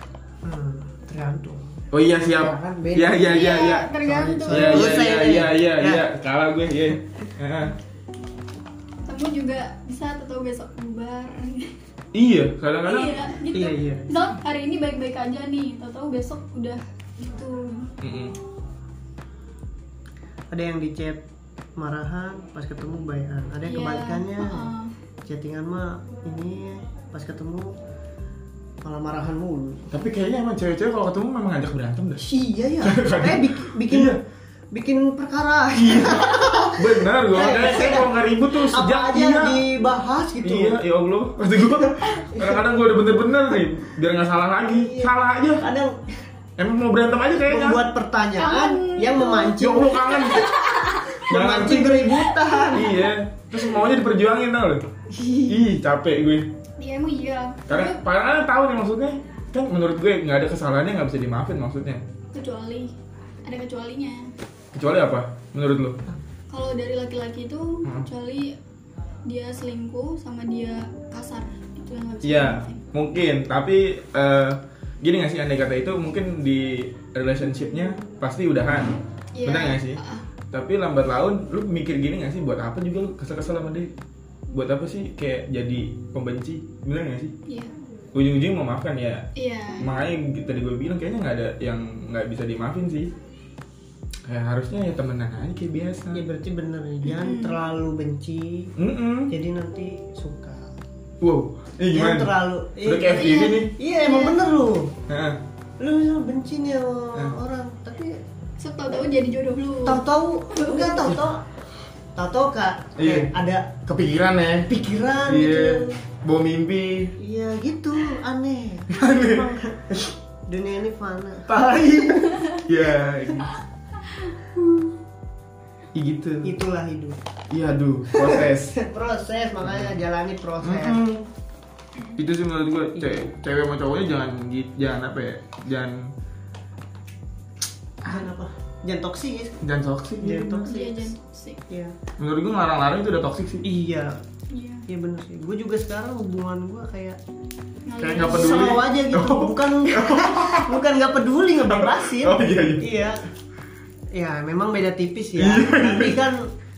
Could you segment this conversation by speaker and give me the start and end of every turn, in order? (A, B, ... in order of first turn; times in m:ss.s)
0:00.4-0:06.0 A
0:01.9-0:03.9 B
0:03.3-0:05.2 C
0:04.5-0:07.7 B
0:09.0-0:11.7 C
0:12.1-0:13.2 B
0:12.8-0:17.9 C
0:13.5-0:14.2 A
0:18.0-0:18.3 B
0:20.5-0:21.2 A
0:21.8-0:24.7 A
0:23.7-0:24.9 C
0:25.2-0:27.7 A
0:28.8-0:29.9 A
0:29.9-0:32.2 B
0:32.2-0:34.2 A
0:32.8-0:34.2 B
0:34.7-0:40.8 A
0:35.8-0:39.6 B
0:40.4-0:45.6 B
0:42.3-0:42.6 A
0:44.7-0:46.1 A
0:46.6-0:47.8 B
0:47.4-0:50.3 A
0:48.4-0:51.2 C
0:49.5-0:50.5 B
0:51.2-0:53.0 A
0:51.3-0:54.8 B
0:52.3-0:53.1 C
0:55.2-0:55.5 A
0:55.5-0:56.5 B
0:56.8-0:58.0 C
0:57.7-1:02.0 B
1:02.3-1:02.9 C
1:03.4-1:04.3 C
1:04.7-1:06.0 B
1:06.5-1:08.6 C
1:09.2-1:12.8 C
1:12.2-1:20.0 B
1:19.3-1:20.2 C
1:20.5-1:23.9 B
1:24.5-1:27.3 B
1:27.4-1:27.7 C
1:28.1-1:29.3 B
1:29.4-1:29.9 C
1:29.8-1:33.1 B
1:34.2-1:36.2 B
1:36.1-1:38.7 A
1:37.0-1:37.6 C
1:38.8-1:39.3 B
1:39.3-1:40.7 A
1:41.2-1:42.3 B
1:41.9-1:45.0 A
1:42.8-1:43.7 B
1:43.1-1:44.4 C
1:45.1-1:45.4 B
1:45.8-1:48.2 A
1:48.6-1:51.0 C
1:49.8-1:51.4 A
1:52.2-1:53.9 A
1:53.0-1:53.3 B
1:53.9-1:54.7 B
1:54.7-1:55.9 A
1:55.3-1:57.1 B
1:57.2-2:02.4 A
1:58.9-1:59.5 B
2:01.5-2:03.6 B
2:05.9-2:06.6 B
2:06.4-2:07.2 A
2:07.5-2:08.8 B
2:08.1-2:11.0 A
2:09.6-2:09.9 B
2:10.6-2:11.3 B
2:12.2-2:16.1 B
2:13.0-2:13.3 A
2:18.0-2:19.6 A
2:19.6-2:20.7 B
2:20.2-2:21.1 A
2:20.6-2:21.6 C
2:21.7-2:22.0 A
2:22.2-2:23.6 B
2:23.6-2:24.2 A
2:24.5-2:24.8 C
2:24.9-2:27.2 A
2:27.8-2:28.8 C
2:28.0-2:30.7 B
2:28.1-2:33.2 A
2:31.7-2:32.9 B
2:34.1-2:36.5 A
2:35.4-2:36.2 B